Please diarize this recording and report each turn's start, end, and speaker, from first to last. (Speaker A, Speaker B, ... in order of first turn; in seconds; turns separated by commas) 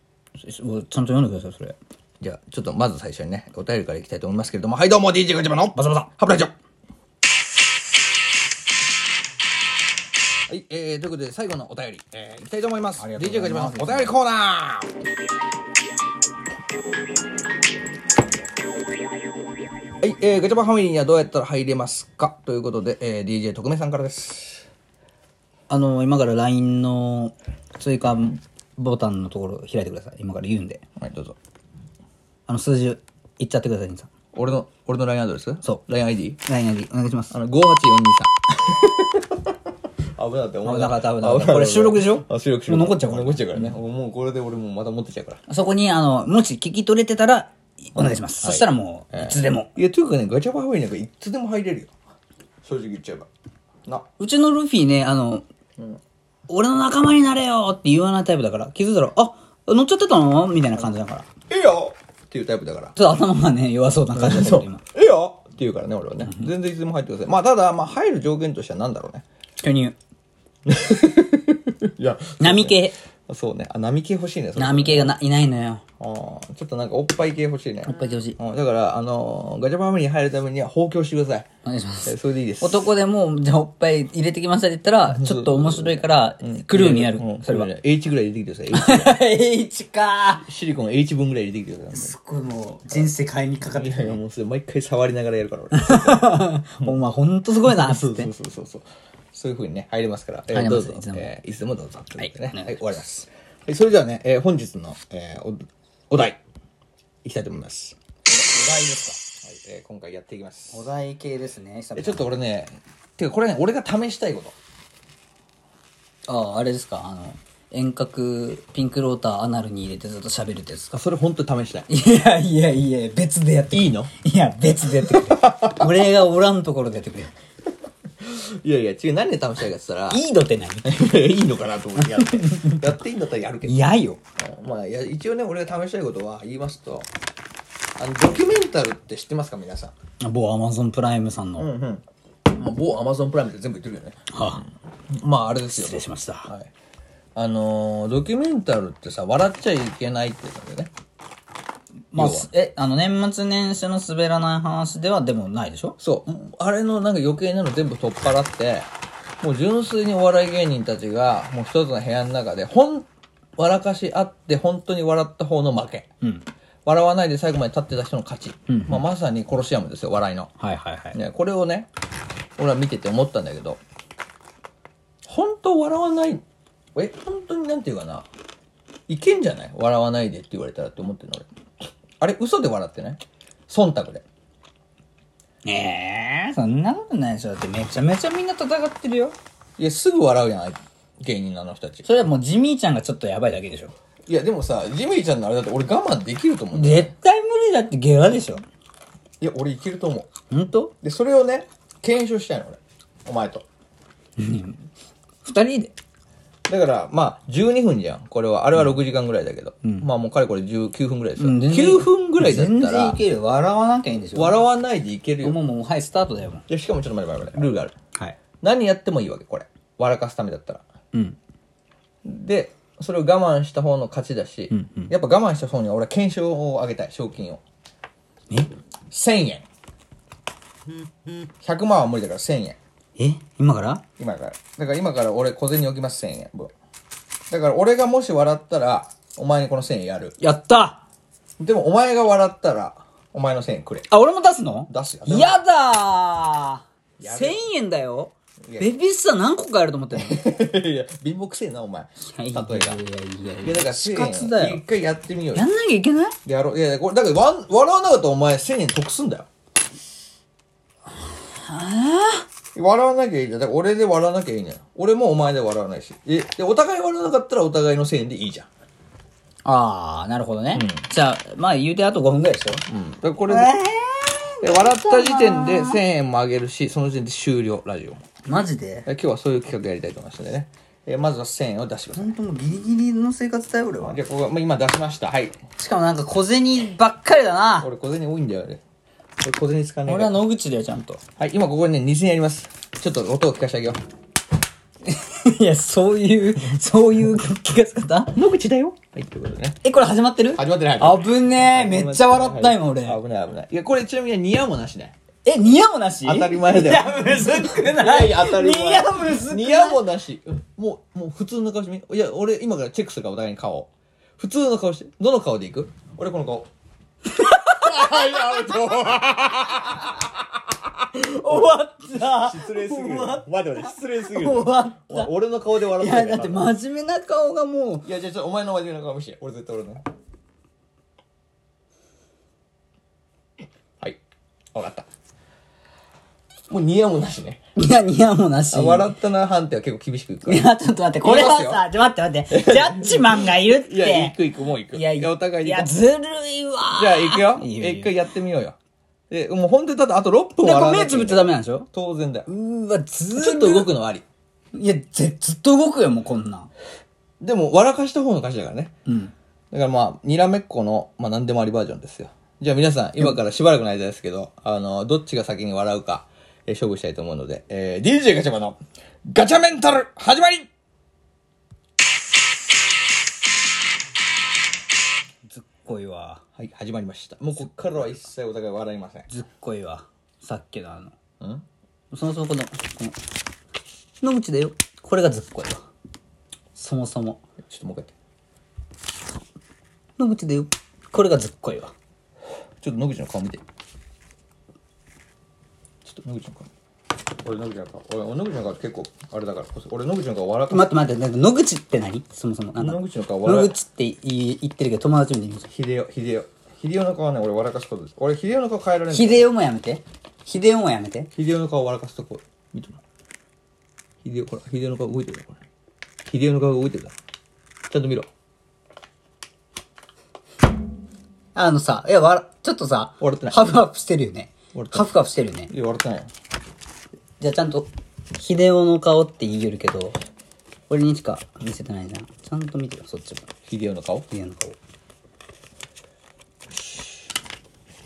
Speaker A: 0.4-1.8, Speaker B: 2.2-6.5, Speaker A: 5.8-6.1, Speaker B: 10.5-14.9, Speaker A: 13.0-14.2, Speaker B: 20.0-24.7, Speaker A: 25.7-30.8, Speaker B: 31.0-31.4, Speaker A: 32.5-34.1, Speaker B: 34.3-36.4, Speaker A: 36.5-37.3, Speaker B: 37.3-39.4, Speaker B: 40.2-45.4, Speaker A: 40.6-43.7, Speaker A: 45.5-49.7, Speaker B: 48.0-51.9, Speaker B: 52.6-53.3, Speaker A: 54.2-55.5, Speaker A: 56.5-61.3, Speaker B: 61.5-63.0, Speaker A: 63.0-64.8, Speaker B: 64.2-69.2, Speaker A: 66.2-66.5, Speaker A: 69.6-70.0, Speaker B: 70.7-75.2, Speaker A: 72.4-73.0, Speaker A: 74.6-75.8, Speaker B: 76.0-81.5, Speaker A: 77.9-78.4, Speaker A: 81.7-87.7, Speaker B: 82.1-82.8, Speaker B: 85.1-89.2, Speaker A: 88.7-90.5, Speaker B: 90.4-92.1, Speaker A: 91.9-94.2, Speaker B: 93.7-97.0, Speaker A: 95.7-98.3, Speaker B: 97.6-106.4, Speaker A: 100.5-101.3, Speaker A: 102.2-102.9, Speaker B: 107.2-108.0, Speaker A: 108.3-109.2, Speaker B: 109.4-110.9, Speaker A: 110.7-112.3, Speaker B: 112.0-114.6, Speaker A: 116.3-121.0, Speaker B: 120.9-121.9, Speaker A: 121.9-127.3, Speaker B: 123.7-124.1, Speaker B: 125.1-125.9, Speaker B: 128.2-130.2, Speaker A: 130.1-131.0, Speaker B: 130.8-137.1, Speaker A: 132.0-132.8, Speaker A: 133.7-134.2, Speaker B: 138.0-139.9, Speaker A: 140.2-141.7, Speaker B: 141.6-144.6, Speaker A: 144.3-144.6, Speaker B: 145.1-146.7, Speaker A: 145.7-146.5, Speaker B: 147.3-150.9, Speaker A: 152.1-156.0, Speaker B: 152.1-152.5, Speaker B: 156.0-158.9, Speaker B: 159.4-166.1, Speaker B: 166.8-170.5, Speaker A: 168.7-169.0, Speaker A: 170.6-171.2, Speaker B: 171.1-171.9, Speaker B: 172.6-173.8, Speaker B: 175.3-176.4, Speaker B: 176.9-178.3, Speaker B: 179.1-181.5, Speaker B: 182.2-184.2, Speaker A: 185.7-189.4, Speaker B: 189.8-192.1, Speaker A: 192.0-193.9, Speaker B: 194.3-197.1, Speaker A: 196.7-198.7, Speaker B: 199.4-200.3, Speaker A: 200.5-200.9, Speaker B: 201.0-203.7, Speaker A: 204.4-204.9, Speaker A: 205.4-205.9, Speaker B: 206.7-213.2, Speaker A: 211.4-214.6, Speaker B: 214.3-215.6, Speaker A: 215.4-216.7, Speaker B: 216.7-217.9, Speaker B: 218.6-220.8, Speaker B: 222.2-227.6, Speaker A: 224.7-225.1, Speaker B: 229.1-229.7, Speaker B: 231.6-232.8, Speaker A: 233.2-234.0, Speaker B: 234.2-236.7, Speaker B: 237.5-240.4, Speaker A: 240.4-241.0, Speaker B: 241.6-244.1, Speaker A: 244.1-250.4, Speaker B: 244.9-245.6, Speaker B: 247.2-247.6, Speaker B: 248.6-248.9, Speaker B: 250.1-253.0, Speaker A: 252.3-254.8, Speaker B: 253.6-255.7, Speaker A: 255.5-256.4, Speaker B: 256.4-259.5, Speaker A: 261.5-262.5, Speaker B: 262.8-268.7, Speaker A: 269.6-272.8, Speaker B: 270.7-271.1, Speaker B: 272.9-273.7, Speaker A: 273.5-276.0, Speaker B: 274.6-278.2, Speaker A: 278.5-279.1, Speaker B: 279.1-282.4, Speaker A: 282.1-284.2, Speaker B: 284.0-285.6, Speaker A: 285.8-287.9, Speaker B: 287.8-288.8, Speaker B: 289.4-290.4, Speaker A: 290.1-291.2, Speaker B: 291.4-294.0, Speaker A: 295.1-298.4, Speaker B: 298.3-299.8, Speaker A: 299.8-303.2, Speaker B: 300.6-305.1, Speaker A: 305.4-310.1, Speaker B: 306.2-316.7, Speaker A: 317.4-318.8, Speaker B: 317.6-320.2, Speaker A: 321.1-328.1, Speaker B: 321.4-326.7, Speaker B: 328.0-330.1, Speaker B: 334.7-335.1, Speaker B: 336.7-337.6, Speaker A: 337.8-339.1, Speaker B: 338.7-340.7, Speaker A: 340.5-344.4, Speaker B: 341.2-341.9, Speaker B: 342.5-346.0, Speaker A: 344.9-348.1, Speaker B: 346.9-348.8, Speaker B: 349.3-352.5, Speaker A: 350.6-351.9, Speaker A: 352.5-353.9, Speaker B: 353.4-354.2, Speaker A: 354.7-356.7, Speaker B: 357.4-359.0, Speaker A: 359.1-359.3, Speaker B: 359.7-370.7, Speaker A: 375.5-376.4, Speaker B: 376.6-379.3, Speaker A: 377.7-378.2, Speaker A: 379.3-381.1, Speaker B: 381.4-381.6, Speaker A: 382.1-383.2, Speaker A: 384.2-385.8, Speaker A: 386.8-387.4, Speaker B: 387.6-388.1, Speaker A: 390.2-391.9, Speaker B: 392.8-393.6, Speaker B: 396.1-396.7, Speaker B: 397.4-401.0, Speaker A: 400.7-405.7, Speaker B: 402.8-403.8, Speaker B: 405.7-409.5, Speaker A: 409.1-411.3, Speaker B: 411.3-413.0, Speaker B: 414.2-415.6, Speaker B: 416.3-417.1, Speaker B: 417.9-418.3, Speaker A: 421.6-425.7, Speaker B: 423.2-423.8, Speaker B: 424.7-425.1, Speaker B: 425.7-426.3, Speaker A: 427.4-430.2, Speaker A: 430.9-433.5, Speaker B: 433.7-434.3, Speaker A: 434.3-434.8